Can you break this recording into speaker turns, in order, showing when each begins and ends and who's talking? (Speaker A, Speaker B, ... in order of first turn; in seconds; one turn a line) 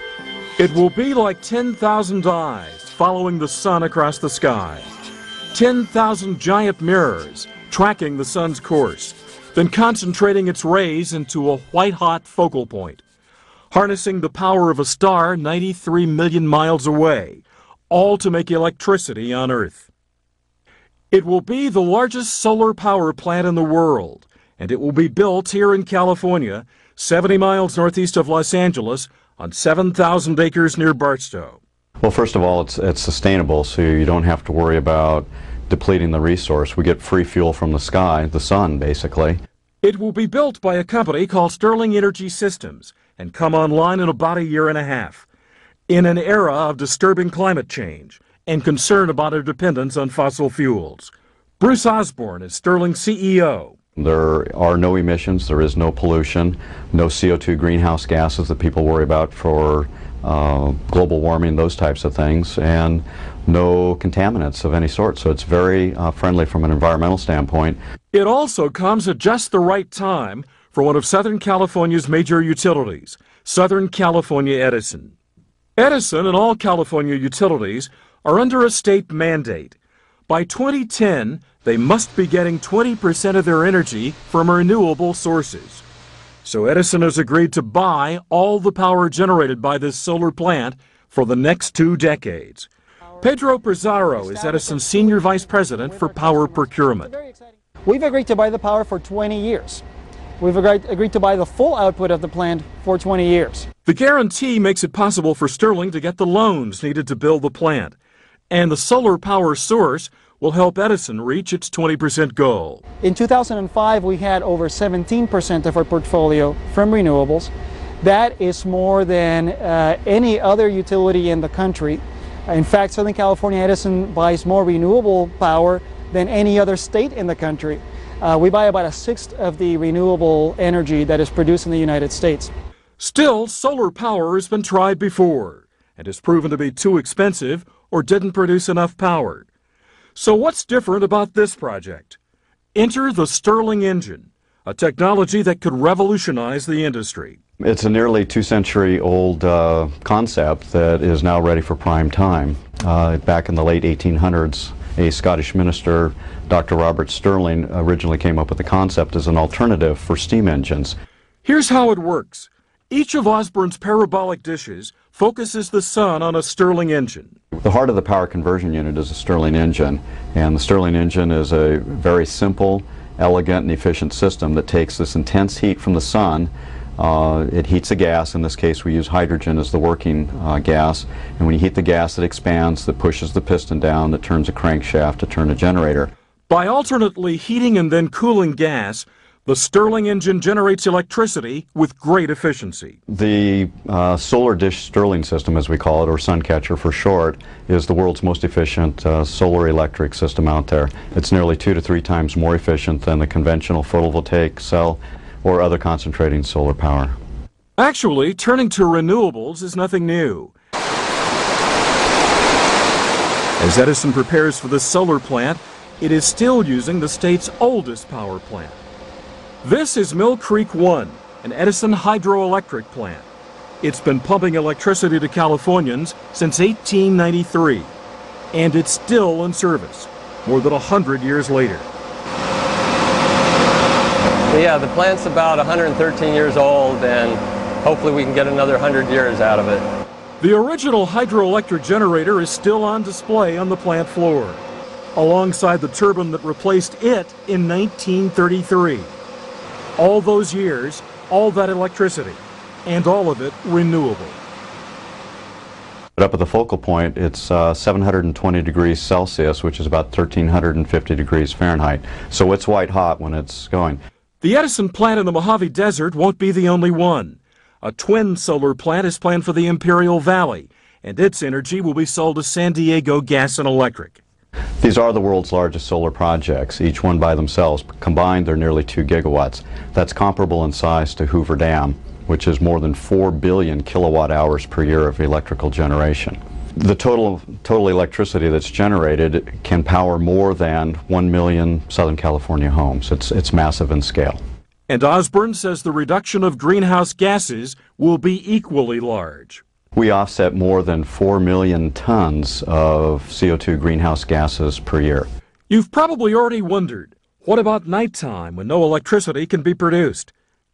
Speaker A: 0.6-4.9
Speaker A: 5.5-13.0
Speaker A: 13.7-19.9
Speaker A: 21.1-31.6
Speaker B: 32.0-39.4
Speaker A: 39.8-45.3
Speaker A: 45.9-53.8
Speaker B: 54.0-67.8
Speaker A: 68.1-75.1
Speaker A: 75.8-79.8
Speaker A: 80.3-85.8
Speaker A: 86.4-92.7
Speaker A: 93.2-97.1
Speaker C: 94.2-99.8
Speaker C: 100.4-103.7
Speaker A: 103.9-108.0
Speaker A: 108.5-112.8
Speaker C: 113.0-132.5
Speaker A: 133.0-139.5
Speaker A: 140.2-142.2
Speaker A: 142.8-147.4
Speaker B: 147.6-161.0
Speaker A: 161.4-167.4
Speaker B: 167.7-186.1
Speaker A: 186.5-193.0
Speaker B: 193.1-207.1
Speaker A: 207.8-210.5
Speaker A: 213.6-218.8
Speaker A: 219.6-223.3
Speaker A: 223.8-227.9
Speaker A: 228.5-231.9
Speaker D: 234.5-239.8
Speaker A: 240.4-244.6
Speaker A: 245.2-249.2
Speaker A: 250.0-254.4
Speaker B: 256.2-264.0
Speaker A: 264.4-274.2
Speaker B: 274.8-294.4
Speaker A: 294.9-299.6
Speaker B: 299.9-305.3
Speaker A: 305.7-310.3